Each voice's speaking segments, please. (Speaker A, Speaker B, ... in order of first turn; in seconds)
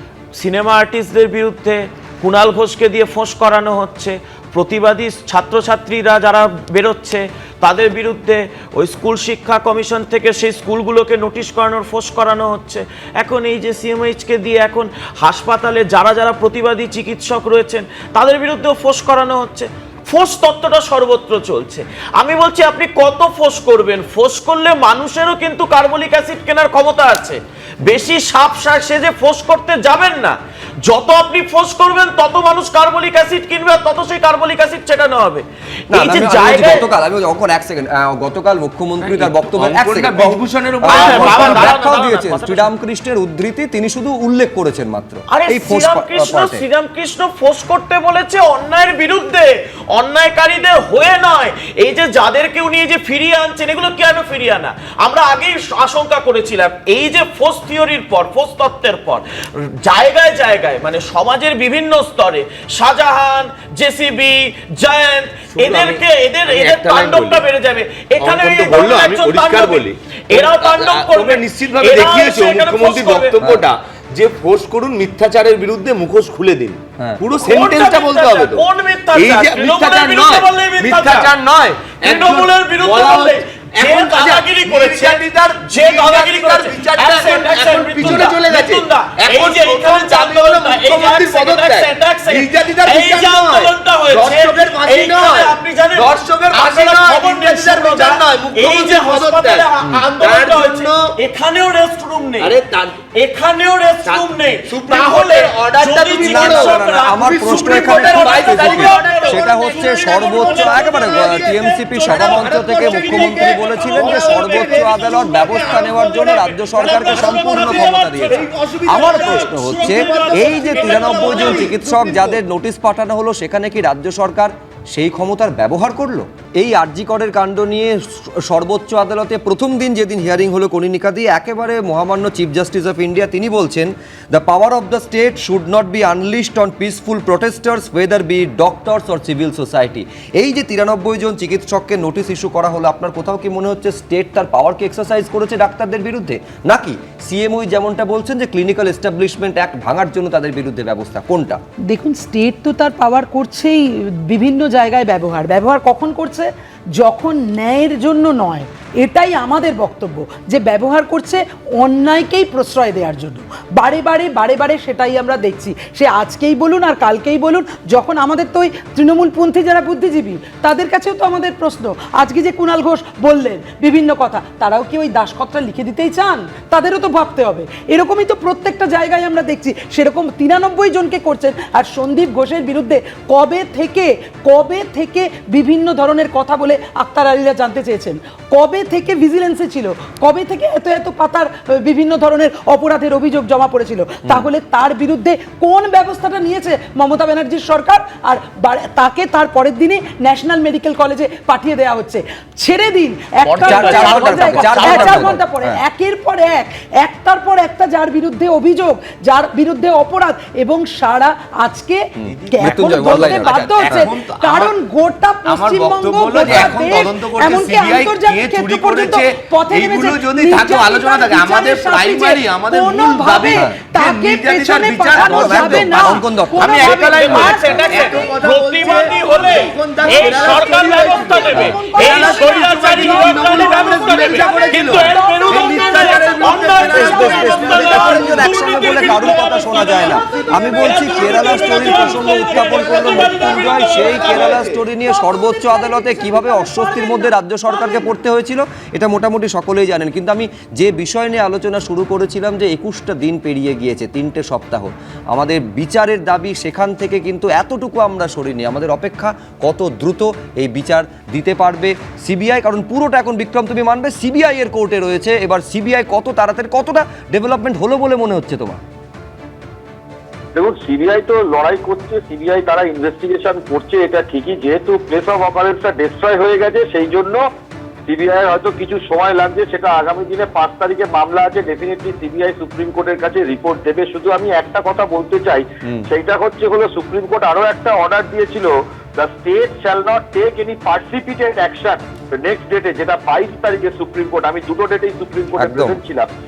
Speaker A: 0.4-36.9, 40.8-42.7, 45.3-73.3, 77.4-81.3, 82.0-102.5, 103.1-114.9, 116.6-121.8, 203.4-205.4, 227.1-244.5
Speaker B: 35.9-46.6, 73.4-73.6, 106.2-151.6, 203.6-205.8, 212.2-214.1, 225.1-227.1, 236.8-268.8, 295.6-296.0
Speaker C: 39.0-41.8, 65.5-67.5, 68.2-101.1, 102.4-103.1, 104.0-111.5, 112.0-122.4, 212.2-214.8, 215.4-238.9, 241.3-244.8
Speaker D: 151.9-228.3, 229.1-239.1, 239.7-242.1, 244.2-248.1
Speaker E: 270.5-277.4, 278.1-296.3